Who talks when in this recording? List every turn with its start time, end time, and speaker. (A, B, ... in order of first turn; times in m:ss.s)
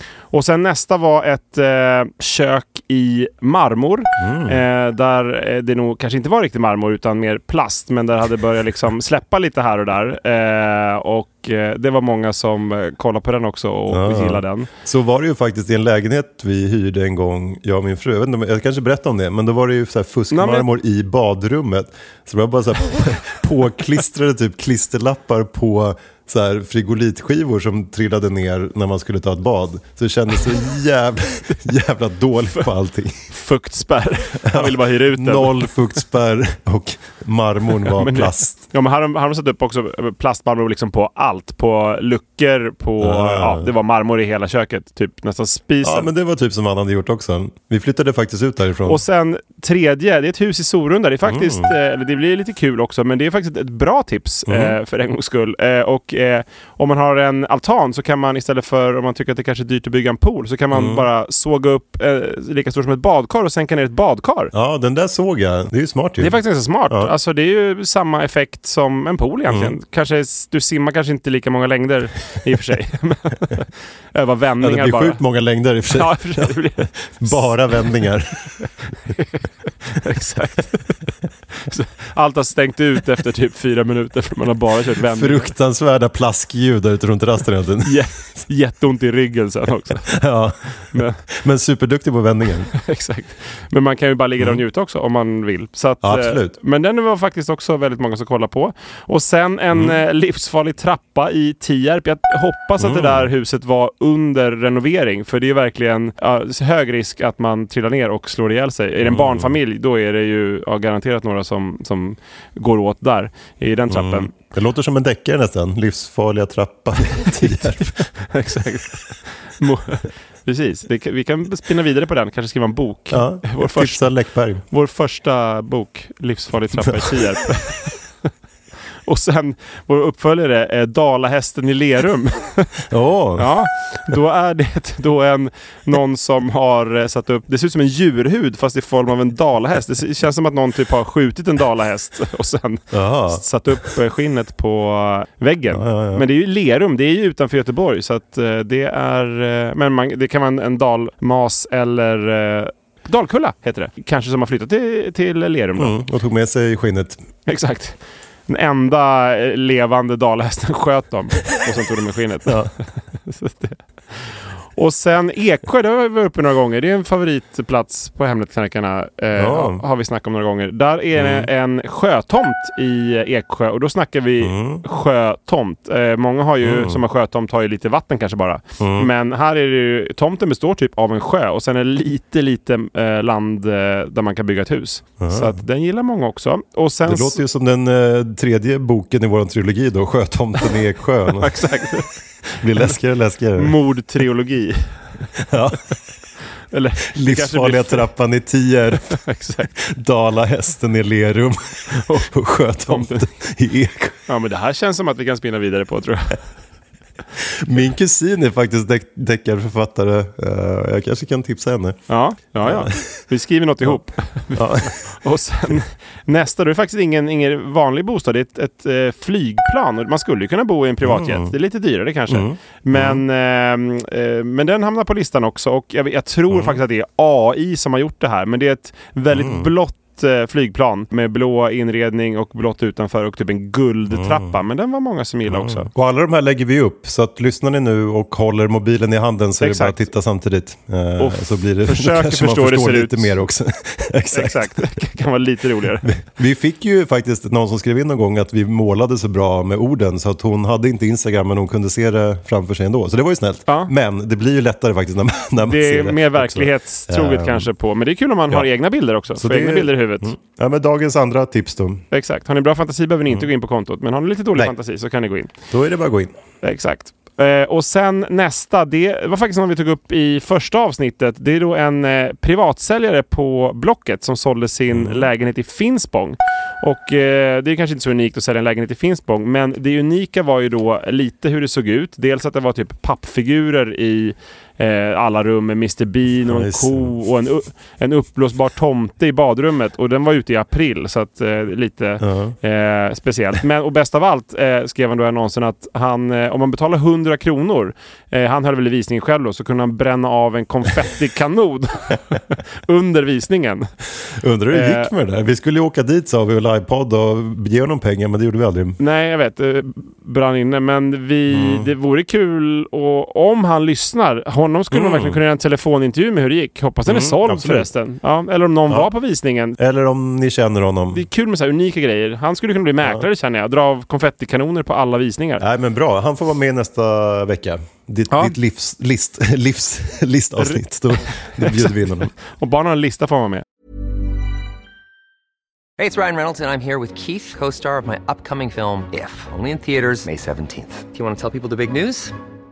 0:00.3-0:14.7 A
0:04.2-0:04.6 B
0:13.9-0:33.3 B
0:20.3-0:20.7 A
0:33.3-0:35.7 A
0:34.5-0:38.5 B
0:37.9-0:46.1 A
0:43.0-0:43.7 B
0:45.8-0:49.0 B
0:48.9-1:04.5 A
0:51.3-0:51.7 B
0:54.5-0:54.8 B
1:00.7-1:01.1 B
1:04.5-1:07.1 B
1:06.2-1:15.2 A
1:09.5-1:09.8 B
1:14.6-1:18.6 B
1:15.9-1:18.1 A
1:18.6-1:25.5 A
1:25.0-1:28.0 B
1:27.8-1:30.2 A
1:30.2-1:32.7 B
1:30.8-1:31.2 A
1:32.8-1:54.3 A
1:36.0-1:36.6 B
1:39.7-1:40.0 B
1:42.8-1:43.3 B
1:49.0-1:49.6 B
1:53.9-1:58.1 B
1:57.4-2:04.1 A
2:03.1-2:04.6 B
2:04.6-2:08.3 A
2:09.1-2:12.8 A
2:12.9-2:13.6 B
2:13.4-2:35.9 A
2:22.9-2:23.9 B
2:25.7-2:26.2 B
2:35.8-2:37.3 B
2:37.5-2:42.6 A
2:42.5-2:42.7 B
2:43.2-3:07.4 A
2:49.4-2:49.8 B
2:51.2-2:51.5 B
2:54.4-2:54.8 B
2:56.6-2:57.0 B
2:58.8-2:59.1 B
3:05.2-3:05.6 B
3:07.1-3:11.8 B
3:11.4-3:12.1 A
3:12.6-3:13.8 B
3:13.6-3:15.1 A
3:15.4-3:15.9 B
3:16.7-3:18.1 A
3:17.1-3:19.2 B
3:18.9-3:19.7 A
3:19.8-3:24.2 B
3:21.9-3:22.3 A
3:22.9-3:23.3 A
3:24.3-3:26.4 A
3:27.4-3:32.0 B
3:32.1-3:55.9 A
3:32.6-3:33.2 B
3:34.5-3:35.0 B
3:41.0-3:41.5 B
3:42.3-3:43.2 B
3:46.5-3:46.8 B
3:49.3-3:49.7 B
3:54.1-3:54.5 B
3:55.5-4:05.0 B
3:59.6-4:00.1 A
4:01.2-4:03.4 A
4:04.3-4:06.1 A
4:06.0-4:17.7 B
4:15.6-4:20.3 A
4:19.3-4:22.0 B
4:22.1-4:25.5 A
4:25.7-4:26.4 B
4:26.6-5:03.9 A
4:34.9-4:35.3 B
4:46.5-4:47.1 B
4:52.2-4:52.6 B
5:04.2-5:09.0 B
5:04.7-5:05.1 A
5:09.0-5:19.8 A
5:11.5-5:11.9 B
5:14.9-5:15.4 B
5:17.1-5:17.9 B
5:19.8-5:21.3 B
5:21.1-5:25.6 A
5:25.6-5:32.3 B
5:28.3-5:28.6 A
5:30.6-5:33.6 A
5:36.0-5:42.4 C